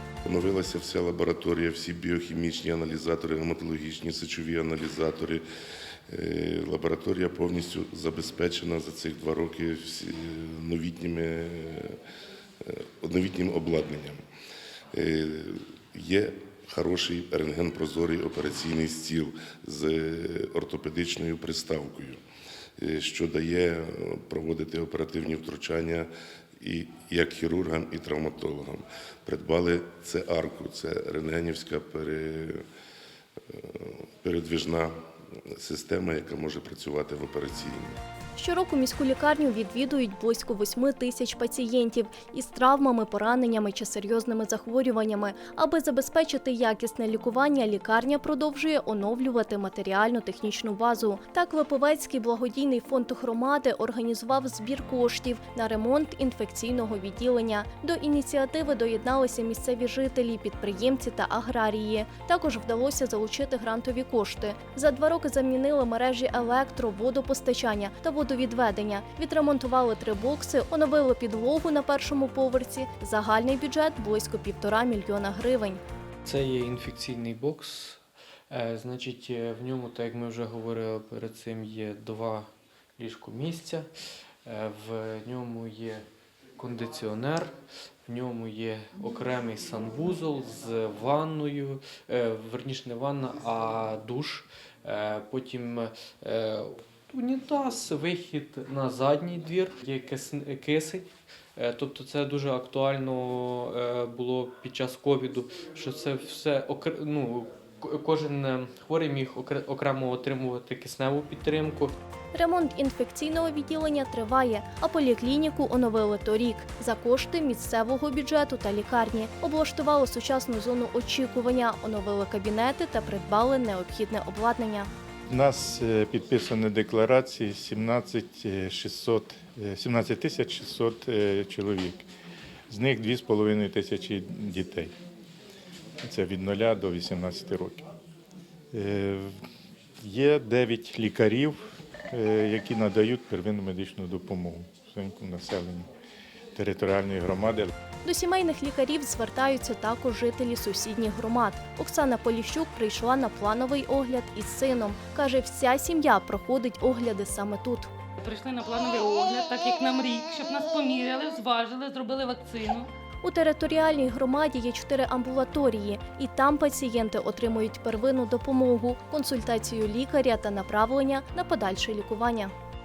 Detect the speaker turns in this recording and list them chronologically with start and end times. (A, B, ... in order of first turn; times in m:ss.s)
0:00.2-0:05.4 A
0:06.1-0:12.0 A
0:12.6-0:14.2 A
0:14.9-0:22.2 A
0:22.8-0:32.6 A
0:33.5-0:34.9 A
0:35.5-0:38.0 A
0:38.4-1:15.8 B
1:16.2-1:23.9 C
1:24.4-1:26.0 C
1:26.6-1:27.5 C
1:28.0-1:51.9 C
1:52.3-2:04.9 B
2:05.3-2:12.0 D
2:12.7-2:14.9 D
2:16.0-2:17.8 D
2:18.7-2:19.3 D
2:20.0-2:25.9 D
2:26.5-2:27.7 D
2:28.0-2:37.9 B
2:38.2-2:42.8 E
2:43.2-2:52.5 B